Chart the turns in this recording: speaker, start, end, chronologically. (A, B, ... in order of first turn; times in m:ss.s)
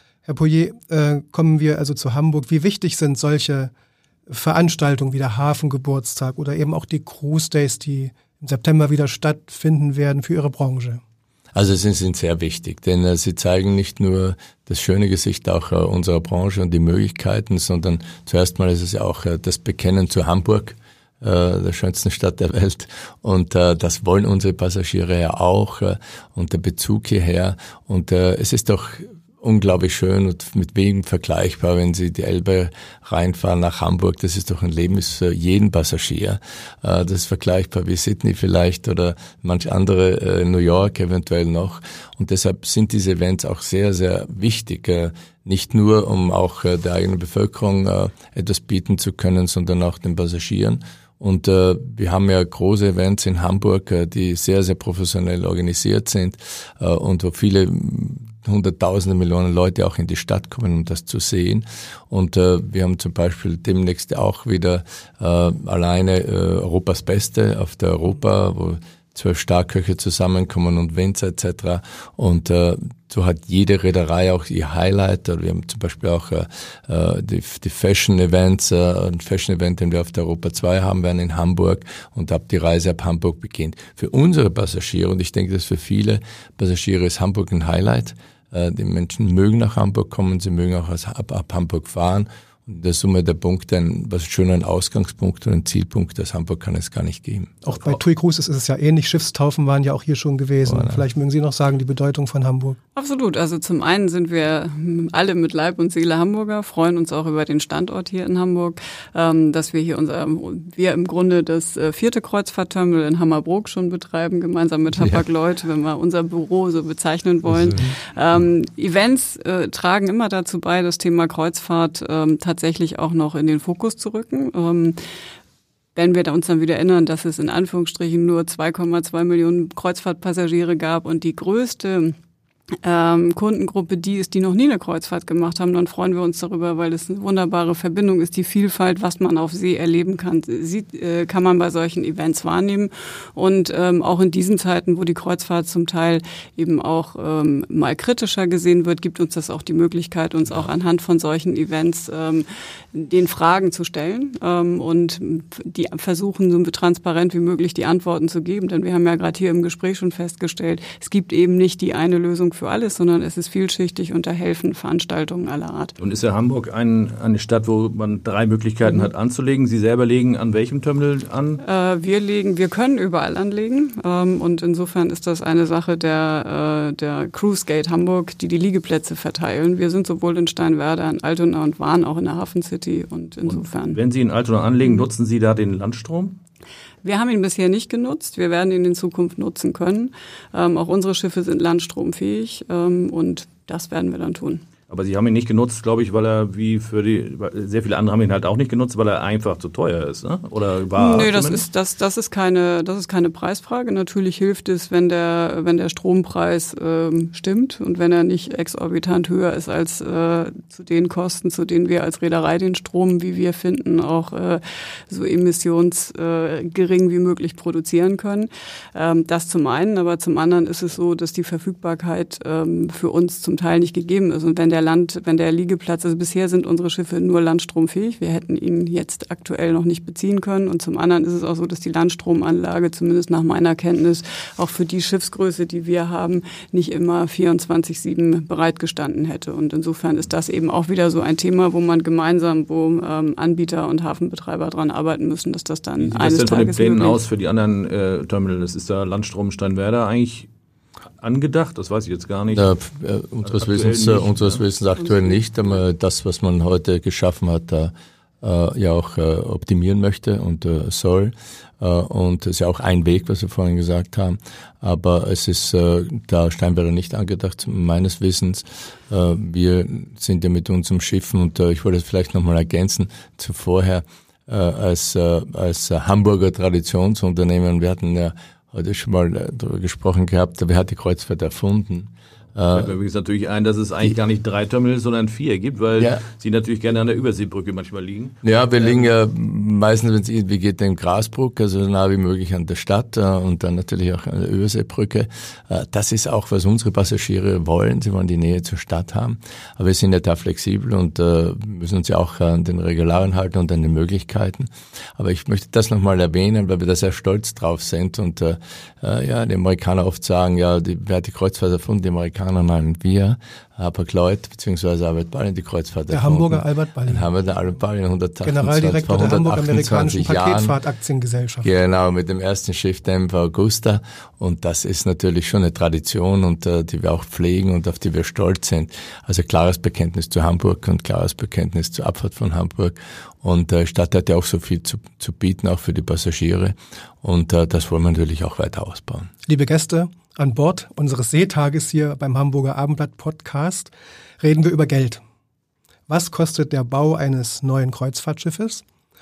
0:00.2-0:03.7 A
0:04.3-0:11.0 A
0:11.6-1:37.6 B
1:37.6-1:42.8 A
1:40.7-1:41.0 B
1:43.0-2:05.0 C
1:57.5-1:57.9 B
2:06.0-2:12.2 C
2:12.8-2:45.9 C
2:46.0-2:51.6 D
2:51.6-3:04.0 C
3:03.5-3:06.4 D
3:07.0-3:14.6 C
3:14.9-3:21.6 D
3:21.0-4:07.2 C
4:06.0-4:10.5 D
4:11.2-4:12.7 D
4:12.5-4:42.9 B
4:13.4-4:14.6 D
4:15.0-4:15.8 C
4:42.7-4:49.1 D
4:46.0-4:46.2 B
4:48.4-5:20.8 B
5:16.1-5:17.3 A
5:18.4-5:21.7 A
5:21.6-5:39.3 B
5:39.5-5:45.2 A
5:46.1-5:48.8 A